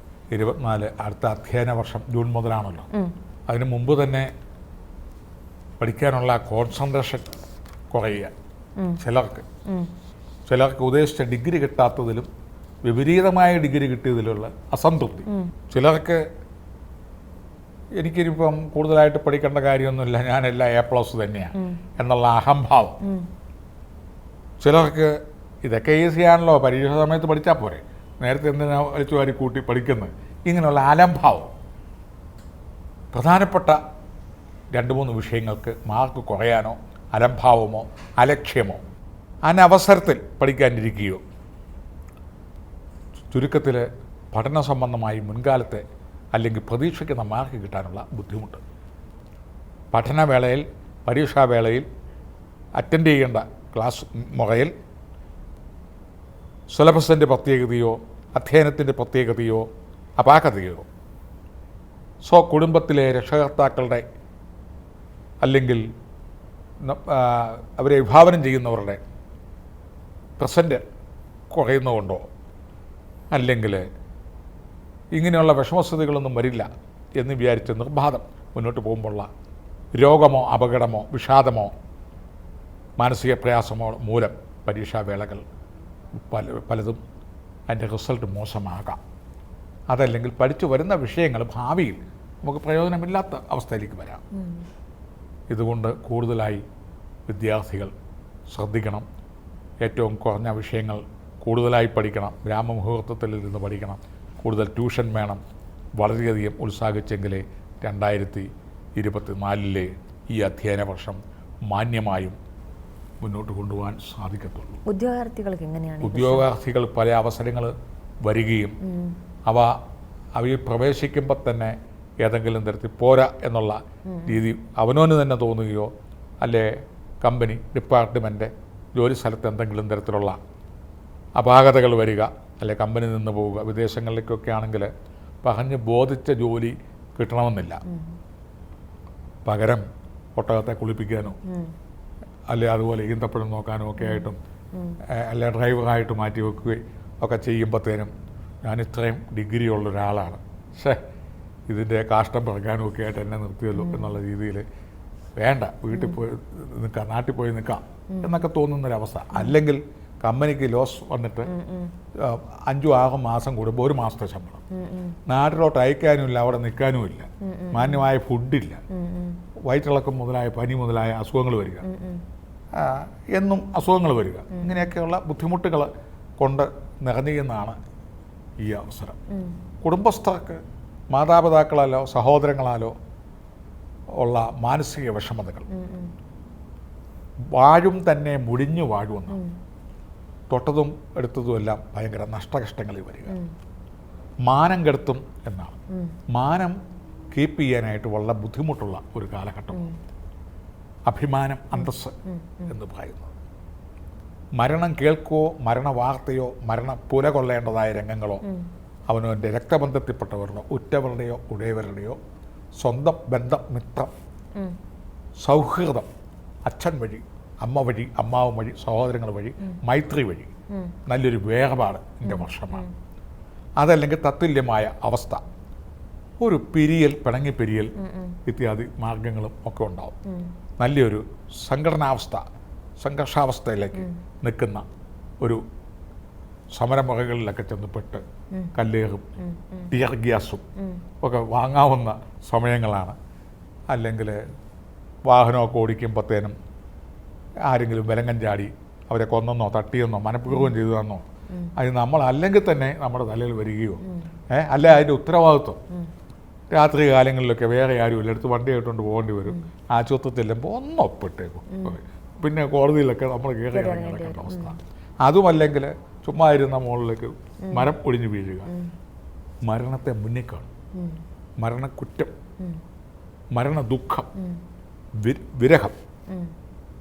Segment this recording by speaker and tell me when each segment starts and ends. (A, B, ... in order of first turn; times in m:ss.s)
0:00.3-0:02.9 A
0:03.5-0:04.3 A
0:05.8-0:07.3 A
0:07.9-0:08.3 A
0:09.0-0:09.4 A
0:10.5-0:12.3 A
0:12.8-0:16.2 A
0:18.0-0:23.0 A
0:23.0-0:23.3 B
0:24.6-0:31.5 A
0:33.1-0:33.8 A
0:34.7-0:38.8 A
0:39.4-0:41.2 A
0:43.3-0:45.8 A
0:46.3-0:48.6 A
0:49.9-0:51.8 A
0:52.8-0:54.7 A
0:56.7-0:59.7 A
1:00.2-1:00.9 A
1:02.2-1:04.0 A
1:05.4-1:05.8 A
1:06.8-1:09.0 A
1:10.4-1:10.8 A
1:11.5-1:12.2 A
1:13.3-1:13.8 A
1:15.1-1:19.3 A
1:19.9-1:21.7 A
1:23.0-1:25.4 A
1:26.2-1:27.0 A
1:27.7-1:29.0 A
1:29.9-1:34.2 A
1:34.4-1:34.6 B
1:35.5-1:36.6 A
1:37.3-1:37.9 A
1:38.5-1:39.0 A
1:39.8-1:45.4 A
1:46.0-1:52.4 A
1:53.2-1:54.8 A
1:54.8-1:56.4 B
1:56.0-1:58.8 A
1:58.8-1:59.2 B
1:59.4-1:59.7 A
2:00.4-2:05.9 A
2:04.1-2:04.4 B
2:06.4-2:06.7 A
2:07.2-2:10.4 A
2:11.4-2:14.9 A
2:15.4-2:17.8 A
2:17.9-2:18.2 B
2:19.4-2:19.8 A
2:20.4-2:21.4 A
2:21.5-2:21.7 B
2:22.5-2:24.4 A
2:24.0-2:25.0 B
2:25.1-2:28.1 A
2:28.6-2:31.0 A
2:31.7-2:34.6 A
2:33.7-2:34.1 B
2:35.4-2:41.5 A
2:35.9-2:36.2 B
2:38.1-2:38.3 B
2:41.5-2:41.9 B
2:42.2-2:44.6 A
2:44.7-2:45.2 B
2:45.3-2:48.8 A
2:47.4-2:48.1 B
2:48.9-2:49.4 B
2:49.6-2:51.8 A
2:51.8-2:52.2 B
2:52.7-2:57.8 A
2:54.5-2:54.8 B
2:58.6-2:59.2 A
2:59.3-2:59.6 B
2:59.8-3:02.9 A
3:04.2-3:05.7 A
3:05.7-3:06.1 B
3:07.5-3:09.4 A
3:10.5-3:13.4 A
3:14.4-3:15.8 A
3:16.3-3:16.8 A
3:17.3-3:19.8 A
3:21.1-3:22.1 A
3:21.7-3:22.7 B
3:22.7-3:23.3 A
3:24.6-3:28.4 A
3:29.1-3:32.2 A
3:32.8-3:34.1 A
3:35.4-3:36.1 A
3:36.6-3:40.5 A
3:41.1-3:42.8 A
3:42.2-3:42.9 B
3:43.8-3:45.4 A
3:46.4-3:47.9 A
3:48.0-3:48.4 B
3:48.4-3:50.1 A
3:50.8-3:52.4 A
3:53.0-3:54.8 A
3:56.7-3:58.2 A
3:58.7-3:59.2 A
3:59.4-3:59.9 B
3:59.9-4:00.6 A
4:01.2-4:03.2 A
4:03.9-4:04.4 A
4:05.2-4:06.5 A
4:07.7-4:11.2 A
4:11.8-4:15.8 A
4:16.7-4:28.7 A
4:21.7-4:22.0 B
4:23.7-4:24.8 B
4:27.6-4:27.9 B
4:29.6-4:30.7 A
4:30.9-4:31.2 B
4:31.6-4:32.3 A
4:33.5-4:34.3 A
4:35.2-4:36.0 A